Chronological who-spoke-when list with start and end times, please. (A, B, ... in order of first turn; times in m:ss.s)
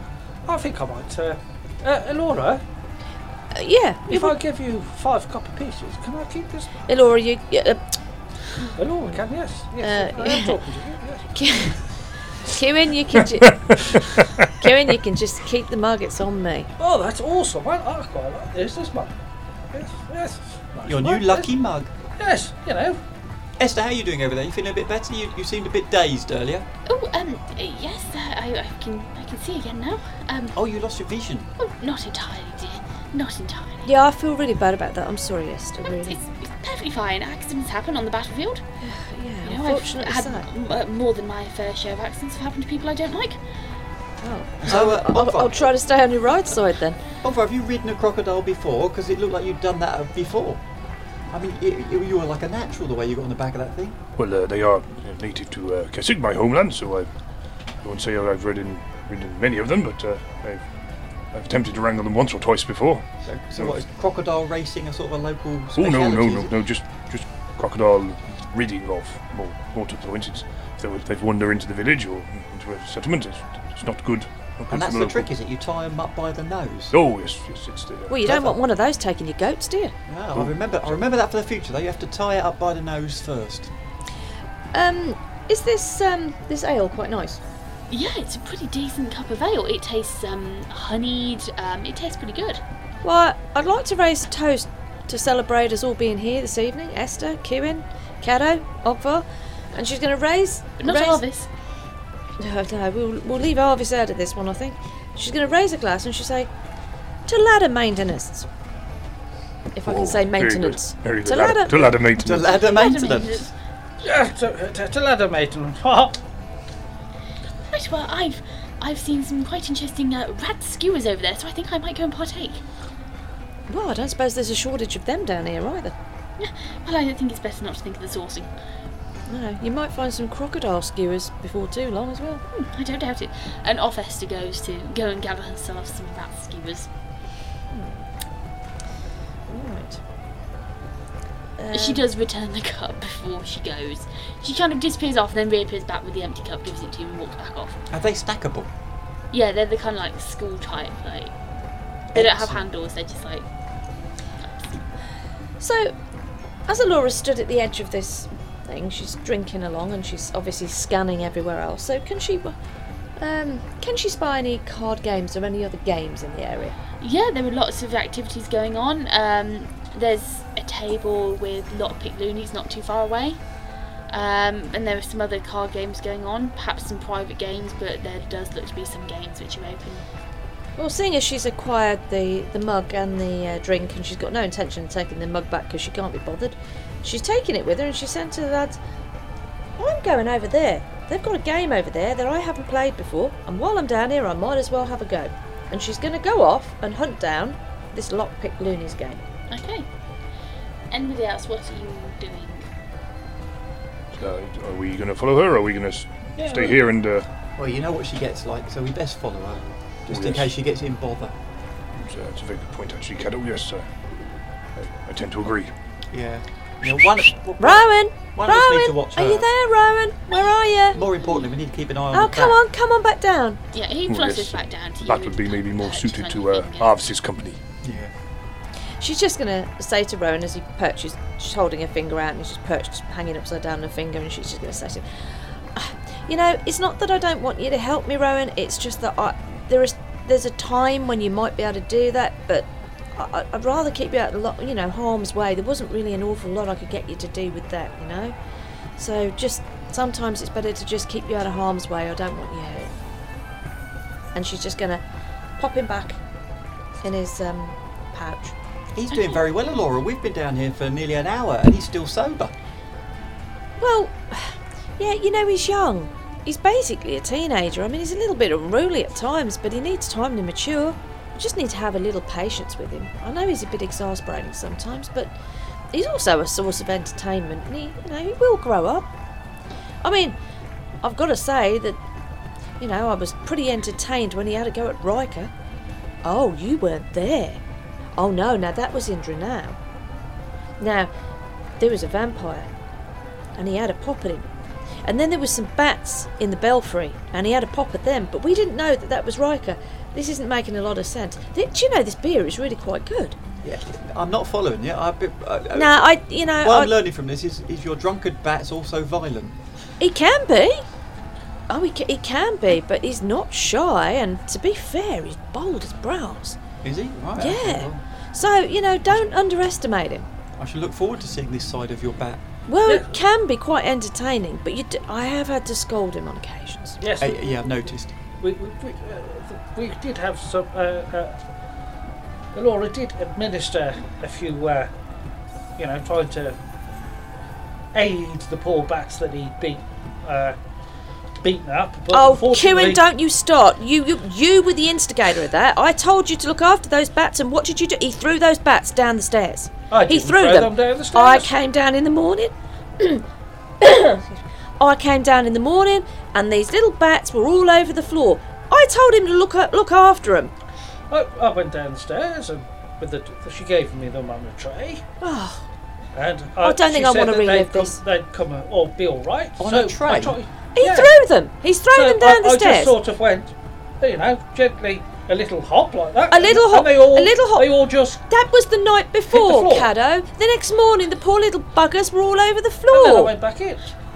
0:00.4-0:02.6 A
0:03.5-0:04.4 B
0:04.1-0:06.7 A
0:06.9-0:07.8 B
0:08.7-0:11.4 A
0:09.8-0:10.6 B
0:11.3-0:11.8 B
0:12.4-0:13.8 B
0:13.5-0:14.5 C
0:14.5-0:16.7 B
0:16.8-0:19.1 A
0:19.7-0:21.5 A
0:20.8-0:21.9 D
0:22.2-0:23.0 A
0:23.6-0:26.6 D
0:26.8-0:30.6 E
0:30.5-0:31.5 D
0:31.6-0:33.9 E
0:33.8-0:36.2 B
0:35.9-0:38.6 E
0:38.8-0:40.5 B
0:39.4-0:43.4 E
0:44.2-0:47.0 B
0:44.6-0:45.7 D
0:47.2-0:50.6 D
0:51.3-0:54.0 D
0:54.2-0:57.1 C
0:57.8-1:00.6 C
1:01.3-1:03.0 C
1:03.2-1:06.5 D
1:05.8-1:15.3 C
1:14.7-1:17.0 D
1:16.9-1:18.2 C
1:18.1-1:19.9 B
1:18.2-1:18.6 D
1:20.1-1:23.7 D
1:24.7-1:27.4 B
1:27.9-1:32.6 E
1:33.0-1:41.2 B
1:40.8-1:41.5 E
1:42.4-1:46.5 B
1:47.2-1:48.5 B
1:49.7-1:51.9 B
1:49.8-1:52.5 C
1:51.7-1:53.5 D
1:52.4-1:53.5 E
1:54.0-1:56.2 A
1:57.7-2:02.6 E
2:03.7-2:05.9 B
2:06.4-2:08.5 E
2:09.3-2:12.4 B
2:12.5-2:16.9 E
2:17.7-2:18.0 B
2:19.5-2:20.0 B
2:21.6-2:22.0 B
2:21.7-2:27.8 E
2:27.9-2:28.7 D
2:29.3-2:31.3 E
2:32.1-2:33.4 E
2:35.6-2:35.9 B
2:36.7-2:42.6 B
2:43.2-2:46.8 B
2:47.0-2:53.4 E
2:54.1-3:00.0 E
3:00.8-3:08.8 B
3:09.8-3:19.2 B
3:19.5-3:19.9 E
3:20.9-3:22.6 E
3:24.1-3:27.3 C
3:26.4-3:26.8 A
3:27.6-3:31.3 D
3:30.1-3:30.5 C
3:32.0-3:33.9 C
3:34.8-3:35.7 C
3:36.1-3:39.4 D
3:37.6-3:41.0 B
3:40.9-3:42.6 D
3:41.0-3:41.4 E
3:42.1-3:43.6 B
3:43.7-3:46.9 E
3:44.1-3:47.6 C
3:47.8-3:48.1 D
3:49.0-4:08.3 B
4:09.0-4:12.9 B
4:14.3-4:15.0 B
4:15.6-4:16.2 B
4:17.0-4:18.5 B
4:18.9-4:22.5 D
4:19.1-4:19.4 E
4:23.8-4:35.3 B
4:35.9-4:39.1 B
4:40.0-4:40.4 B
4:41.0-4:42.0 B
4:42.8-4:45.5 B
4:46.2-4:47.6 B
4:48.2-4:49.8 B
4:50.8-4:51.1 B
4:51.8-4:52.7 B
4:53.6-4:54.5 B
4:55.0-5:03.4 B
5:03.6-5:06.0 D
5:05.7-5:06.9 B
5:06.6-5:09.6 D
5:10.0-5:10.8 B
5:11.7-5:16.6 B
5:16.8-5:18.0 D
5:17.4-5:20.3 B
5:20.6-5:22.4 D
5:22.7-5:27.0 B
5:22.8-5:23.2 A
5:27.0-5:31.4 A
5:27.2-5:28.1 D
5:32.5-5:34.9 A
5:35.8-5:36.6 A
5:37.9-5:40.6 A
5:41.4-5:43.0 A
5:42.1-5:53.2 B
5:49.9-5:51.5 A
5:53.8-6:00.5 B
6:01.1-6:05.0 A
6:05.2-6:05.7 B
6:06.1-6:11.1 A
6:06.6-6:08.0 B
6:09.6-6:10.4 D
6:10.7-6:12.9 B
6:11.9-6:18.2 A
6:16.3-6:23.3 B
6:19.3-6:19.9 A
6:22.9-6:23.9 A